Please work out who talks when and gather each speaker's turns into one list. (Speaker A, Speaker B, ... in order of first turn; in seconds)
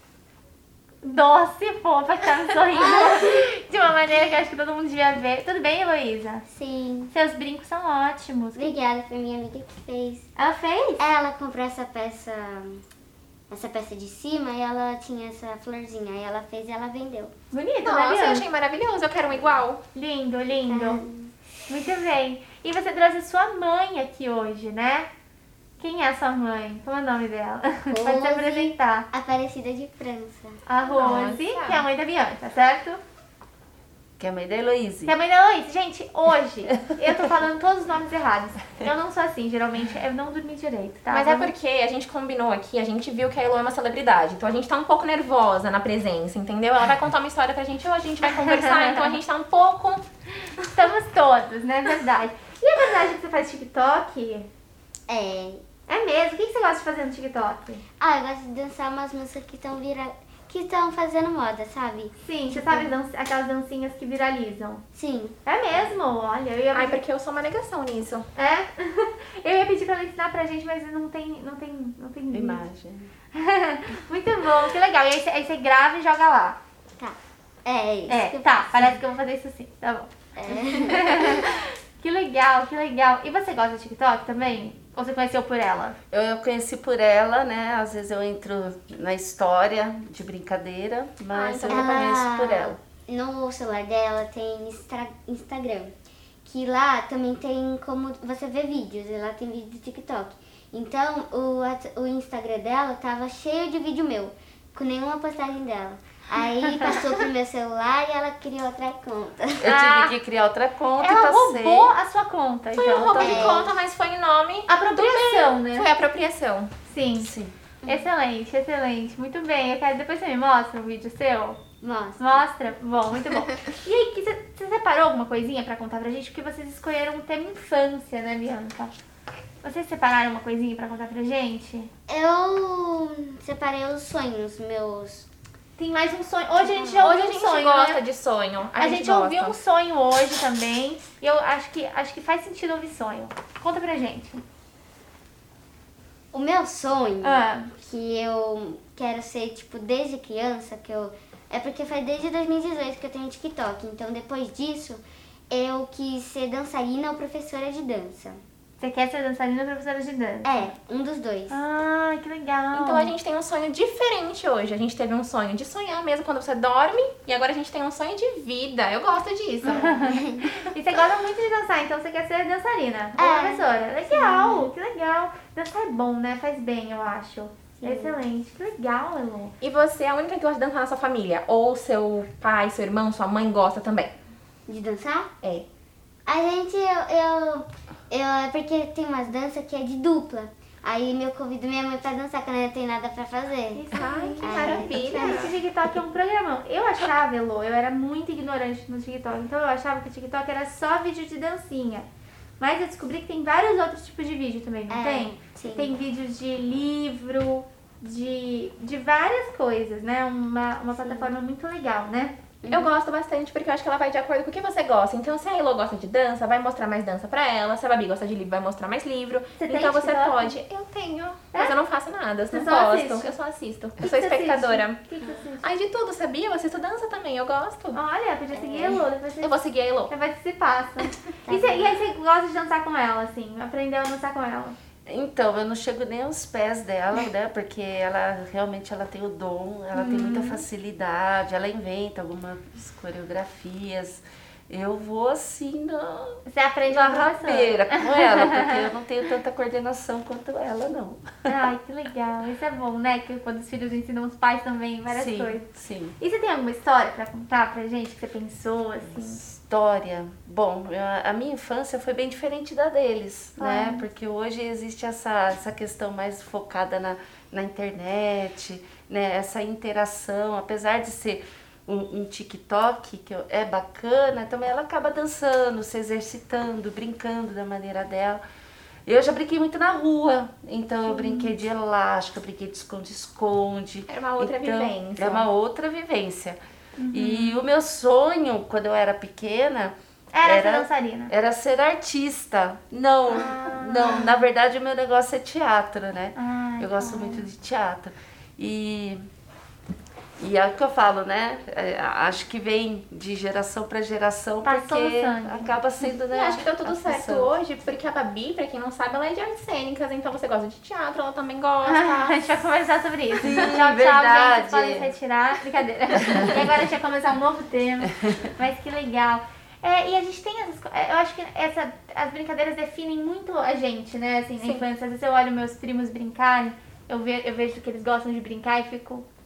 Speaker A: 1.0-6.4, 7.1-8.7, 10.3-11.0, 17.5-18.4, 19.9-21.0, 21.7-25.1, 25.8-29.1, 30.6-33.0, 35.0-41.5, 48.2-49.1, 50.6-54.5, 55.9-57.8, 62.2-64.8, 65.4-67.0, 68.3-72.6, 73.3-76.6, 78.1-86.0, 109.6-110.1, 111.0-113.6, 114.7-115.9, 116.8-117.3, 117.8-121.6, 122.2-128.9, 129.6-131.9, 135.8-138.0, 138.8-144.4, 147.2-147.7, 158.8-160.7, 161.5-163.1, 169.7-179.5, 193.7-202.1, 202.6-212.3, 219.6-220.6, 222.5-223.3, 224.0-225.7, 227.9-229.5, 230.1-234.8, 239.9-240.6, 246.4-248.8, 251.5-259.4, 263.6-264.1, 281.1-281.5, 287.0-287.6, 290.3-291.3, 293.3-294.4, 296.3-297.5, 304.6-305.8, 311.8-329.2
Speaker B: 2.7-3.5, 6.5-7.1, 8.5-10.3, 11.0-12.8, 13.5-17.3, 20.7-21.3, 27.9-30.6, 55.1-55.6, 58.0-62.9, 64.9-65.9, 77.0-79.0, 80.3-81.5, 91.7-95.9, 96.4-109.7, 113.1-113.8, 117.8-118.1, 121.8-122.4, 132.1-135.3, 136.6-137.1, 146.3-158.4, 160.4-161.6, 170.0-170.4, 173.2-174.7, 177.8-178.2, 184.7-185.3, 186.2-195.5, 204.9-205.9, 211.0-211.3, 212.6-212.9, 228.5-229.0, 231.4-232.0
Speaker C: 17.8-19.8, 30.9-31.9, 41.1-50.0, 66.7-68.3, 91.3-92.2, 112.7-116.7, 137.0-139.6, 162.7-169.9, 179.6-184.1, 193.9-195.5, 212.7-225.0, 225.6-228.0, 229.4-230.1, 284.1-285.5, 306.3-312.4
Speaker D: 34.2-35.1, 72.3-73.1, 86.1-92.8, 109.6-111.9, 117.2-117.5, 235.1-251.4, 255.1-256.1, 259.4-278.4, 279.1-286.6, 287.1-299.2, 300.4-307.5, 313.4-315.1